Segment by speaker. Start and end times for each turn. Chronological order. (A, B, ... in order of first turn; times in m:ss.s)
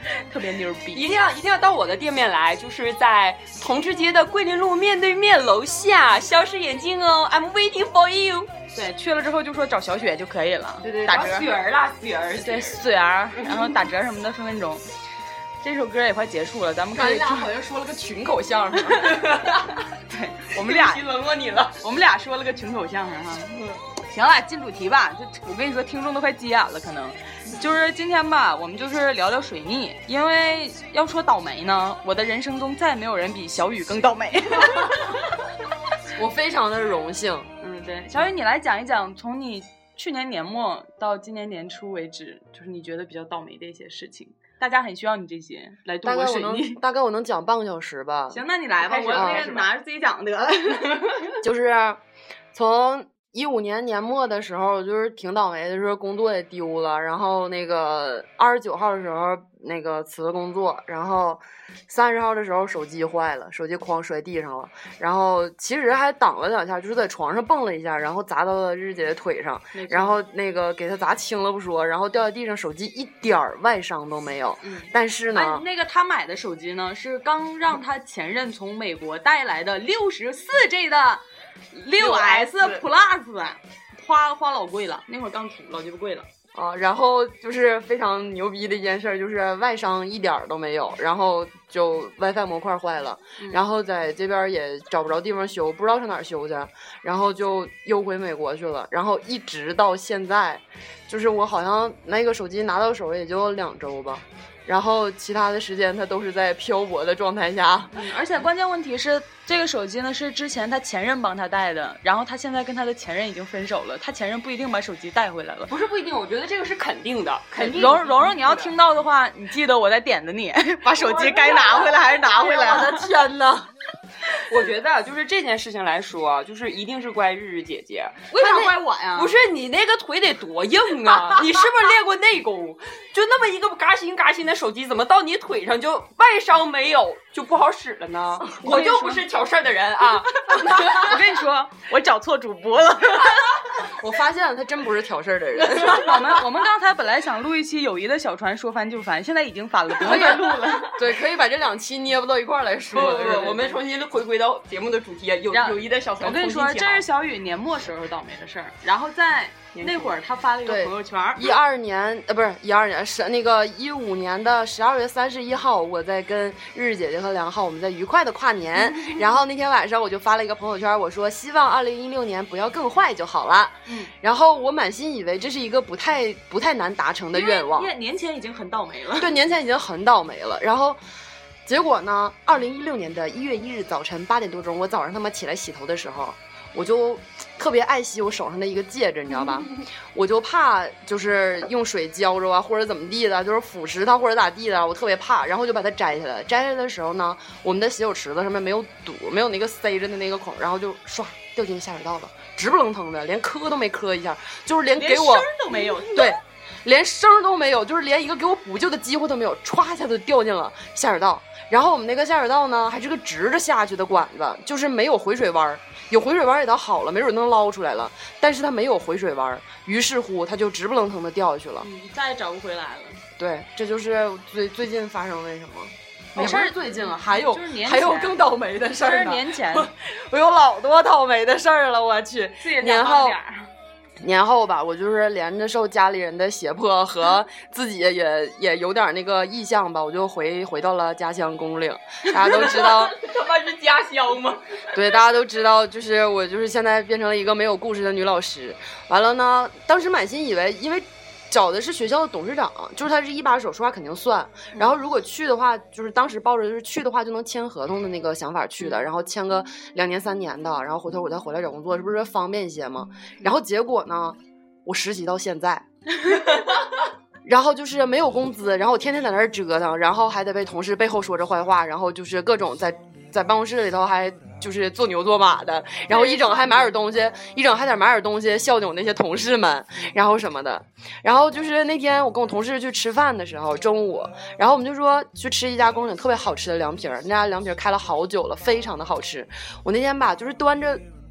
0:00.3-0:01.1 A
0:00.9-0:08.5 B
0:08.7-0:11.5 A
0:10.8-0:12.8 B
0:12.4-0:14.8 A
0:13.4-0:13.8 B
0:15.6-0:17.5 A
0:16.9-0:19.1 C
0:19.0-0:19.8 B
0:20.1-0:21.0 A
0:20.6-0:21.8 B
0:21.8-0:35.2 A
0:36.1-0:37.5 C
0:37.6-0:46.8 A
0:46.0-0:48.4 C
0:48.3-0:51.3 A
0:48.8-0:49.7 B
0:49.1-0:49.6 C
0:51.4-0:52.0 C
0:52.5-1:15.6 C
1:09.7-1:10.2 A
1:14.6-1:26.3 A
1:22.0-1:22.8 C
1:26.5-1:47.9 C
1:47.9-1:55.7 A
1:55.7-1:58.7 B
1:57.8-2:03.1 A
2:01.0-2:02.0 B
2:02.0-2:03.7 C
2:04.5-2:08.6 B
2:08.3-2:09.4 A
2:09.1-2:21.2 B
2:18.6-2:19.2 A
2:20.9-2:23.6 A
2:23.8-2:26.2 C
2:25.7-2:31.0 A
2:30.0-2:33.8 C
2:32.9-2:37.0 B
2:35.5-2:41.5 A
2:39.7-2:40.1 B
2:40.6-2:57.9 C
2:53.9-2:54.1 A
2:57.3-2:59.3 A
2:59.2-3:01.0 C
3:01.6-3:41.9 C
3:25.0-3:26.4 A
3:41.8-3:43.2 A
3:43.4-3:53.4 C
3:46.4-3:49.9 A
3:52.6-3:53.7 A
3:54.2-4:03.1 C
4:02.4-4:04.8 B
4:04.9-4:25.8 C
4:27.4-4:51.0 C
4:36.1-4:36.9 A